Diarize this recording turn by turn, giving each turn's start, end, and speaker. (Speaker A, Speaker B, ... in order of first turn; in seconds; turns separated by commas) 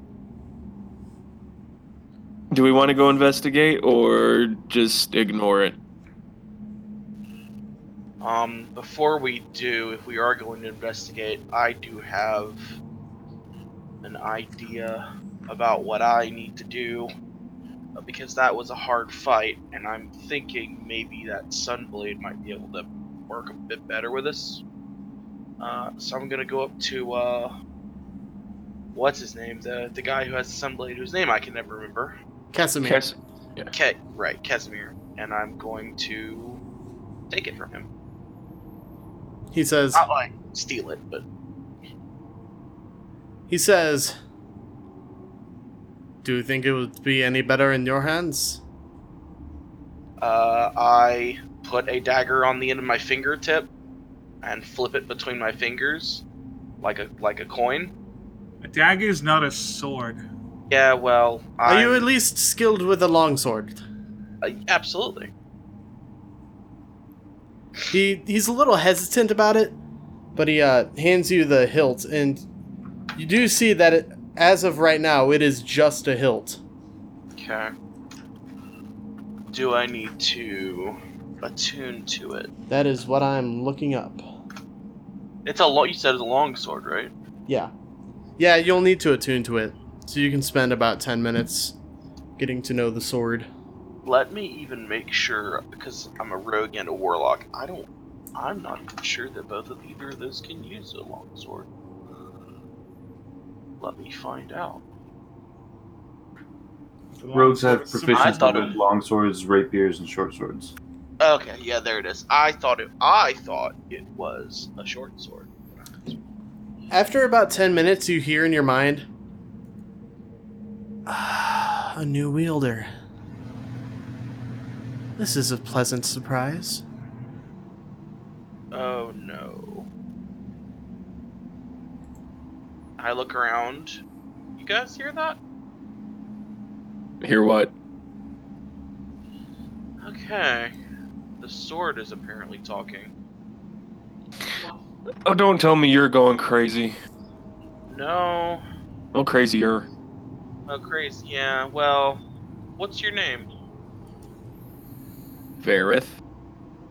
Speaker A: 2.5-5.8, Speaker B: 8.2-12.6, Speaker B: 14.0-17.1, Speaker B: 18.0-24.6, Speaker B: 25.6-27.5, Speaker B: 28.9-32.1, Speaker C: 32.5-33.0, Speaker A: 32.8-33.7, Speaker B: 33.7-36.6, Speaker B: 37.3-37.9, Speaker C: 39.5-40.0, Speaker B: 39.9-41.2, Speaker C: 43.5-44.2, Speaker C: 46.2-48.6, Speaker B: 50.2-53.7, Speaker B: 54.4-56.2, Speaker B: 56.8-57.9, Speaker D: 58.6-60.2, Speaker B: 60.7-62.1, Speaker C: 61.6-63.8, Speaker B: 64.4-65.3, Speaker C: 67.9-69.8, Speaker C: 70.4-72.5, Speaker C: 73.2-76.6, Speaker B: 77.4-77.7, Speaker B: 79.5-82.5, Speaker C: 82.7-84.3, Speaker B: 85.5-87.1, Speaker C: 88.4-91.8, Speaker C: 92.4-93.5, Speaker B: 94.0-101.7, Speaker B: 103.8-104.8, Speaker D: 107.2-108.8, Speaker E: 107.3-110.7, Speaker B: 108.1-108.8, Speaker B: 111.2-115.5, Speaker C: 116.9-119.0, Speaker C: 121.1-122.9, Speaker C: 125.2-126.8, Speaker B: 128.7-129.9, Speaker B: 133.0-134.0, Speaker B: 134.6-135.4, Speaker A: 137.2-137.7, Speaker B: 140.0-140.7, Speaker B: 141.4-143.1, Speaker A: 145.2-147.0, Speaker B: 147.9-148.6, Speaker A: 149.1-149.9, Speaker B: 150.7-152.2, Speaker B: 152.8-153.5, Speaker A: 155.6-156.2